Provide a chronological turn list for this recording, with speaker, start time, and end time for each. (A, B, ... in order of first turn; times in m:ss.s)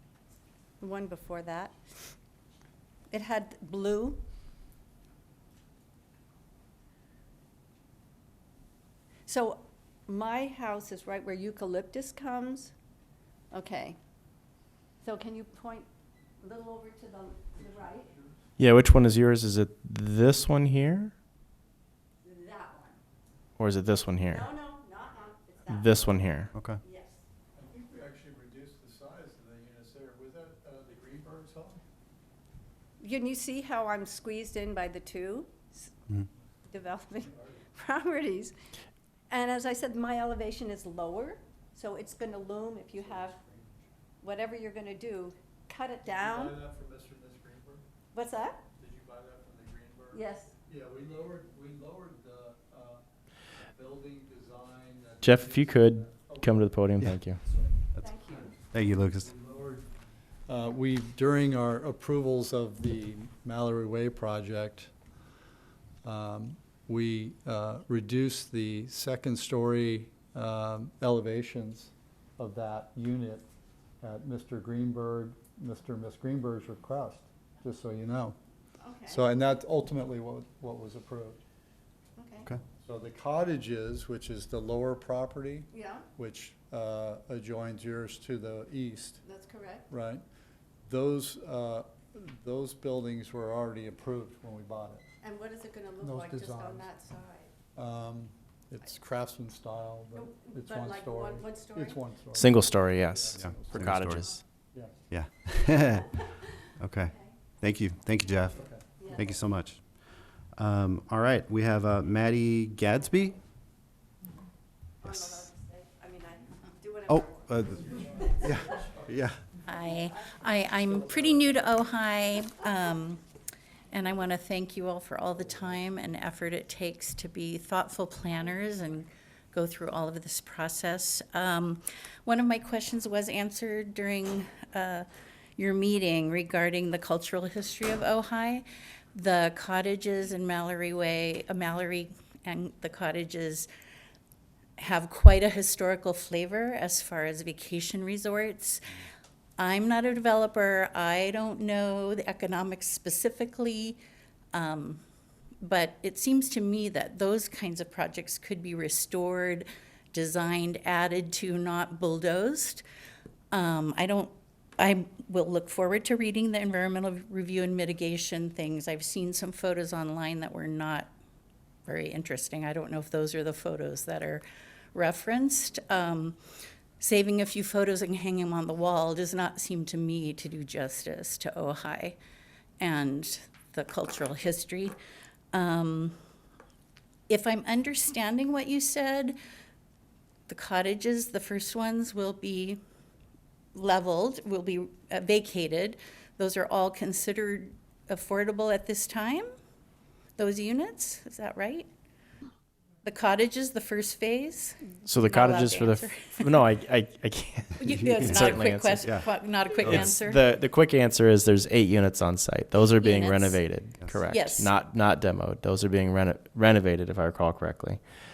0:00.8-0:01.8 A
0:03.1-0:04.2 A
0:09.3-0:12.7 A
0:13.5-0:14.0 A
0:15.0-0:15.9 A
0:16.4-0:18.1 A
0:17.5-0:18.4 B
0:18.6-0:21.1 C
0:22.2-0:23.0 A
0:23.6-0:24.5 C
0:24.3-0:27.2 A
0:25.7-0:26.5 C
0:26.5-0:26.8 D
0:27.5-0:31.8 B
0:33.0-0:35.7 A
0:36.7-0:38.5 A
0:37.1-0:37.6 B
0:39.3-0:43.4 A
0:42.9-0:43.8 B
0:44.2-0:46.6 A
0:46.1-0:47.8 B
0:48.1-0:48.6 A
0:48.8-0:53.0 B
0:50.1-0:50.5 A
0:53.7-0:56.6 B
0:55.2-0:57.4 C
0:57.4-0:57.7 B
0:58.0-0:58.5 A
0:58.7-0:59.3 D
0:59.2-0:59.9 B
1:00.5-1:04.9 B
1:06.0-1:13.4 B
1:14.0-1:18.4 B
1:18.8-1:19.2 A
1:19.1-1:21.4 B
1:22.2-1:22.5 A
1:22.8-1:29.2 B
1:25.7-1:26.0 A
1:29.2-1:29.9 A
1:29.9-1:30.2 B
1:30.8-1:35.0 B
1:35.2-1:37.5 A
1:36.0-1:36.9 B
1:37.7-1:44.1 B
1:40.1-1:42.0 A
1:42.3-1:44.4 C
1:43.4-1:44.3 D
1:45.1-1:46.2 D
1:46.8-1:49.8 D
1:48.6-1:48.8 B
1:49.0-1:49.3 A
1:50.6-1:53.4 D
1:55.0-1:58.5 A
1:55.0-1:55.4 D
1:57.1-1:59.4 D
1:57.8-1:59.2 B
1:59.6-2:03.2 E
2:03.9-2:23.7 E
2:24.8-2:28.9 E
2:29.6-2:34.0 E
2:34.5-2:35.0 E
2:35.6-2:42.8 E
2:43.5-2:51.1 E
2:51.8-2:56.4 E
2:57.0-3:02.2 E
3:02.8-3:04.9 E
3:05.5-3:06.2 E
3:07.3-3:09.4 E
3:10.5-3:12.8 E
3:13.7-3:19.5 E
3:20.4-3:21.9 E
3:23.0-3:26.5 E
3:25.0-3:29.1 C
3:27.8-3:30.4 E
3:28.0-3:28.5 D
3:29.8-3:38.0 C
3:29.8-3:30.1 D
3:33.0-3:33.6 E
3:34.3-3:34.7 E